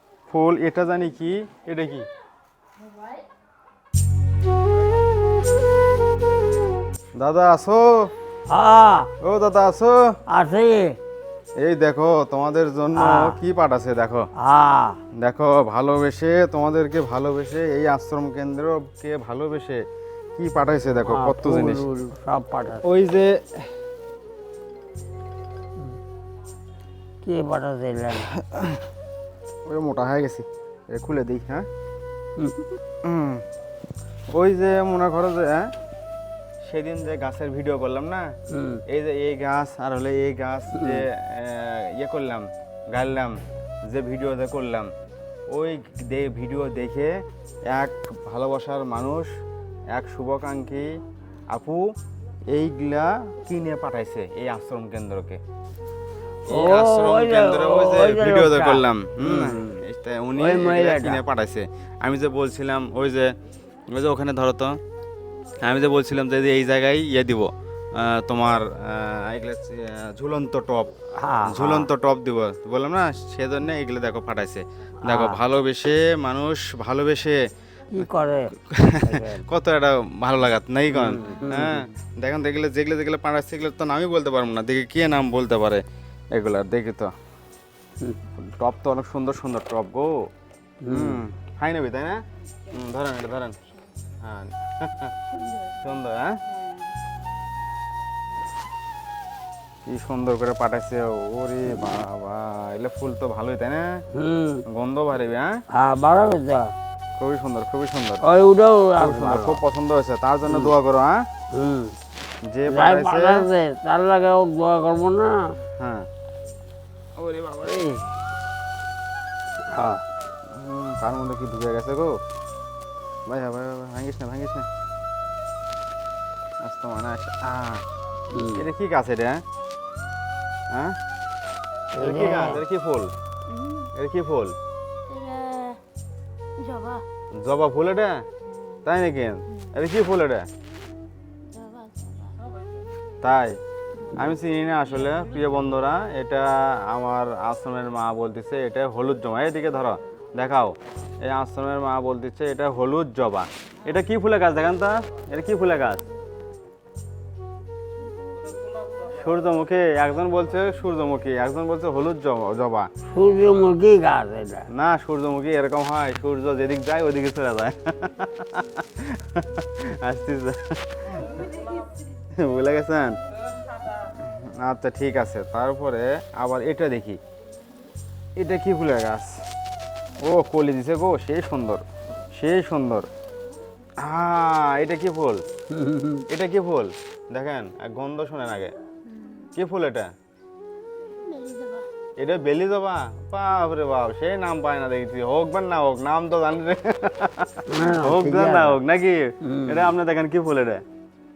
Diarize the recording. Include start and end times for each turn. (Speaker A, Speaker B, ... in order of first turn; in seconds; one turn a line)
Speaker A: 0.3-2.1
Speaker A: 7.2-8.1
Speaker B: 8.5-9.1
Speaker A: 9.2-10.2
Speaker B: 10.3-11.0
Speaker A: 11.6-14.3
Speaker B: 13.0-13.4
Speaker B: 14.4-15.0
Speaker A: 15.2-19.8
Speaker A: 20.4-21.9
Speaker B: 21.1-22.8
Speaker A: 22.8-23.6
Speaker B: 27.2-28.3
Speaker A: 28.4-28.8
Speaker A: 29.7-31.6
Speaker B: 32.4-32.8
Speaker A: 33.0-33.4
Speaker A: 34.3-35.7
Speaker A: 36.6-38.3
Speaker B: 38.5-38.8
Speaker A: 38.9-43.4
Speaker B: 40.7-41.0
Speaker A: 43.9-44.9
Speaker A: 45.5-47.1
Speaker A: 47.7-49.3
Speaker A: 49.9-50.9
Speaker A: 51.5-51.8
Speaker A: 52.5-55.4
Speaker A: 56.5-63.3
Speaker B: 56.5-59.7
Speaker B: 60.4-61.2
Speaker A: 63.9-64.8
Speaker A: 65.6-70.9
Speaker B: 71.2-71.9
Speaker A: 71.5-77.4
Speaker B: 75.0-75.4
Speaker B: 77.9-79.5
Speaker A: 78.7-87.1
Speaker B: 80.9-81.9
Speaker A: 88.4-90.1
Speaker B: 90.8-91.2
Speaker A: 90.9-92.2
Speaker A: 92.7-93.6
Speaker A: 94.2-95.1
Speaker C: 95.4-95.8
Speaker A: 95.8-96.4
Speaker A: 99.9-104.0
Speaker B: 101.7-102.0
Speaker B: 104.1-104.6
Speaker A: 104.7-105.6
Speaker B: 105.7-106.7
Speaker A: 107.2-108.2
Speaker B: 108.2-109.6
Speaker A: 109.0-111.2
Speaker B: 110.5-110.7
Speaker B: 111.5-112.0
Speaker A: 112.5-113.5
Speaker B: 112.7-115.6
Speaker A: 115.8-116.1
Speaker A: 117.2-118.0
Speaker B: 119.7-120.0
Speaker A: 120.5-122.1
Speaker A: 123.3-124.7
Speaker A: 126.6-127.8
Speaker B: 128.3-128.7
Speaker A: 128.5-129.4
Speaker B: 131.9-132.6
Speaker A: 132.0-133.1
Speaker C: 133.5-133.9
Speaker A: 134.0-134.5
Speaker C: 135.1-135.8
Speaker C: 136.6-137.0
Speaker A: 137.4-138.2
Speaker A: 138.8-140.4
Speaker C: 141.5-142.4
Speaker A: 143.2-143.6
Speaker A: 144.1-156.0
Speaker A: 159.1-162.9
Speaker B: 163.1-164.7
Speaker A: 164.7-171.5
Speaker C: 171.6-171.8
Speaker A: 172.4-173.2
Speaker A: 174.1-177.2
Speaker A: 178.4-179.4
Speaker A: 180.2-183.1
Speaker A: 184.0-185.4
Speaker B: 185.7-186.2
Speaker A: 186.3-188.7
Speaker C: 189.1-189.5
Speaker A: 189.6-190.1
Speaker C: 191.3-191.9
Speaker A: 192.2-200.8
Speaker B: 197.7-198.8
Speaker B: 199.4-199.9